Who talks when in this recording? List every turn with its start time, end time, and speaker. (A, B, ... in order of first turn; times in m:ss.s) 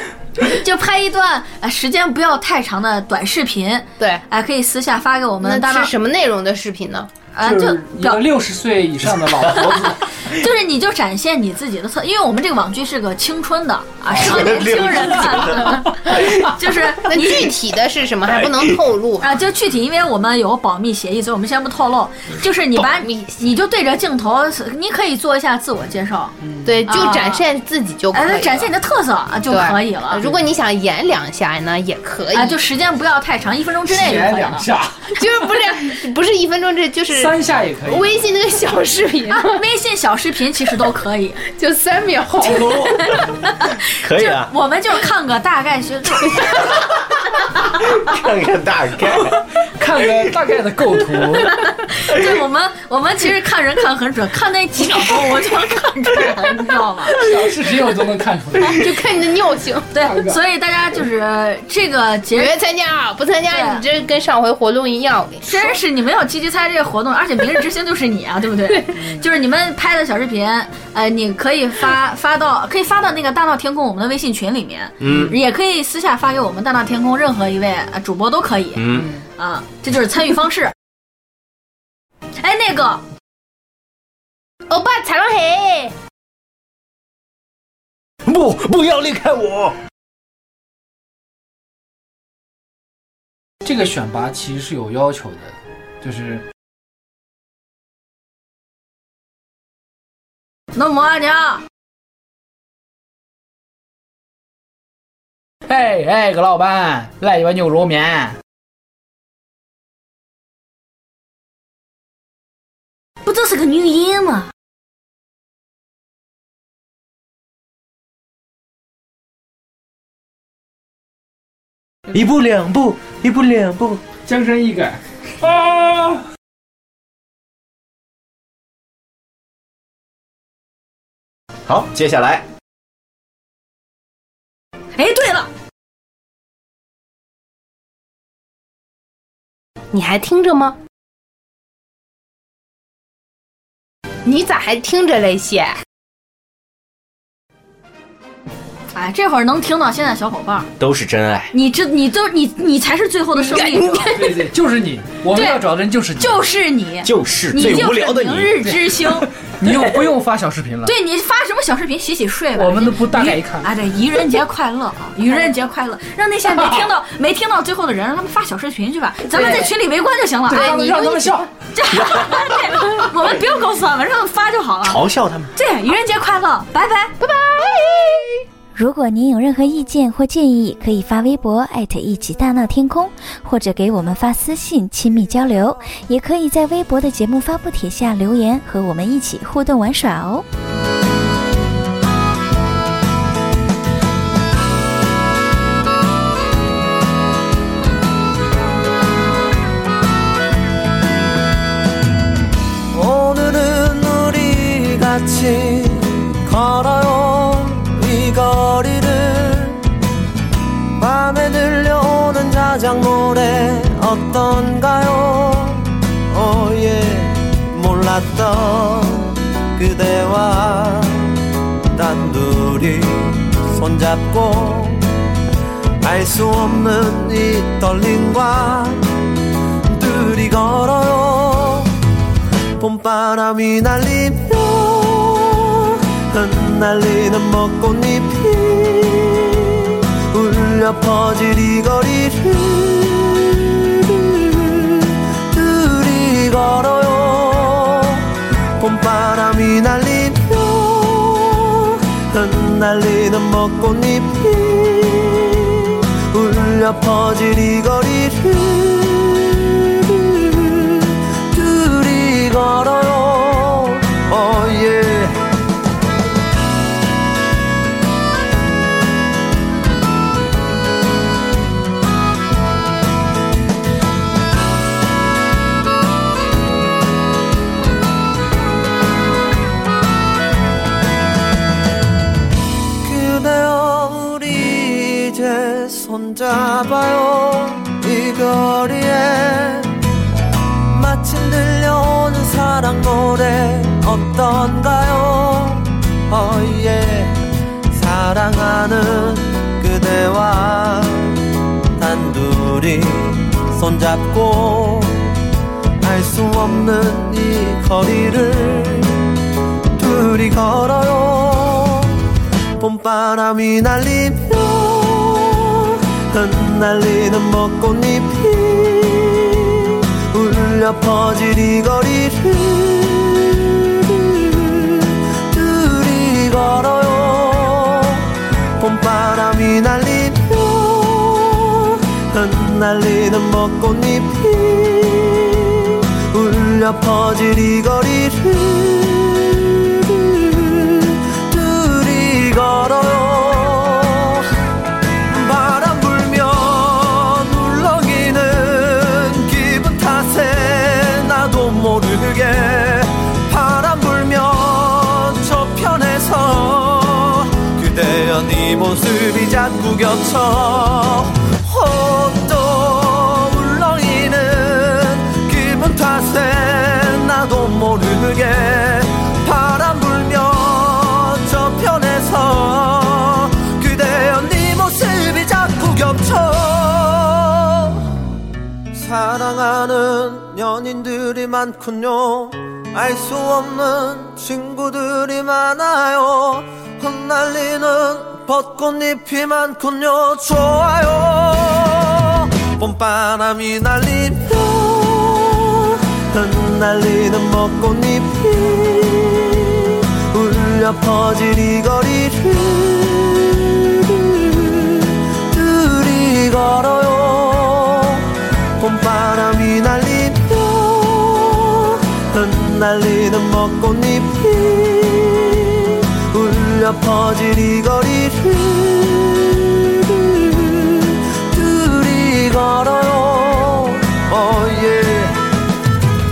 0:00.4-0:05.9 A
0:05.4-0:07.1 B
0:07.3-0:08.2 A
0:07.4-0:10.0 C
0:09.6-0:17.6 A
0:14.2-0:15.7 D
0:17.1-0:19.3 B
0:19.2-0:26.3 A
0:22.8-0:23.4 B
0:26.4-0:26.8 C
0:26.6-0:28.7 B
0:26.9-0:27.4 A
0:28.1-0:30.2 A
0:29.5-0:32.6 B
0:32.3-0:34.7 A
0:33.9-0:35.1 C
0:35.2-0:37.3 B
0:37.1-0:38.1 C
0:37.9-0:39.6 B
0:39.3-0:41.4 A
0:41.5-0:43.0 B
0:42.5-0:43.0 D
0:42.7-0:46.8 A
0:44.0-0:44.5 D
0:47.9-0:49.3 D
0:49.1-0:51.5 C
0:51.4-0:57.2 A
0:57.2-0:58.9 C
0:58.8-0:59.9 B
0:59.9-1:02.6 A
1:00.0-1:00.4 C
1:02.3-1:05.8 B
1:03.5-1:03.8 A
1:05.4-1:20.7 A
1:15.0-1:15.3 D
1:18.8-1:19.1 D
1:18.9-1:19.2 C
1:22.4-1:23.0 A
1:24.7-1:25.9 B
1:28.2-1:29.8 D
1:33.6-1:36.4 C
1:40.7-1:41.6 A
1:45.7-1:48.4 C
1:53.2-1:54.5 A
2:02.1-2:04.0 D
2:04.2-2:06.2 C
2:11.7-2:12.4 D
2:14.9-2:15.5 A
2:19.9-2:20.8 B
2:24.2-2:25.8 B
2:28.9-2:30.7 A
2:30.8-2:31.5 D
2:31.5-2:34.3 A
2:33.4-2:36.4 C
2:33.5-2:34.0 B
2:35.3-2:35.6 A
2:36.2-2:39.3 A
2:37.0-2:38.5 D
2:38.6-2:40.9 C
2:40.8-2:57.2 A
2:42.6-2:43.7 C
2:46.6-2:46.8 C
2:49.3-2:49.7 B
2:50.5-2:51.5 C
2:50.5-2:51.1 B
2:51.9-2:52.5 D
2:54.8-2:55.5 D
2:57.2-2:58.4 B
2:58.8-3:10.4 E
3:22.9-3:29.9 F
3:31.0-3:41.4 F
3:41.9-3:45.1 F
3:46.0-3:49.1 F
3:49.9-3:52.0 F
3:52.8-4:25.4 F
4:43.0-4:50.0 F
4:50.9-4:57.4 F
4:57.9-5:01.4 F
5:02.0-5:05.3 F
5:06.0-5:09.3 F
5:10.0-5:12.2 F
5:12.8-5:44.5 F
5:45.3-6:18.0 F
6:18.9-7:05.4 F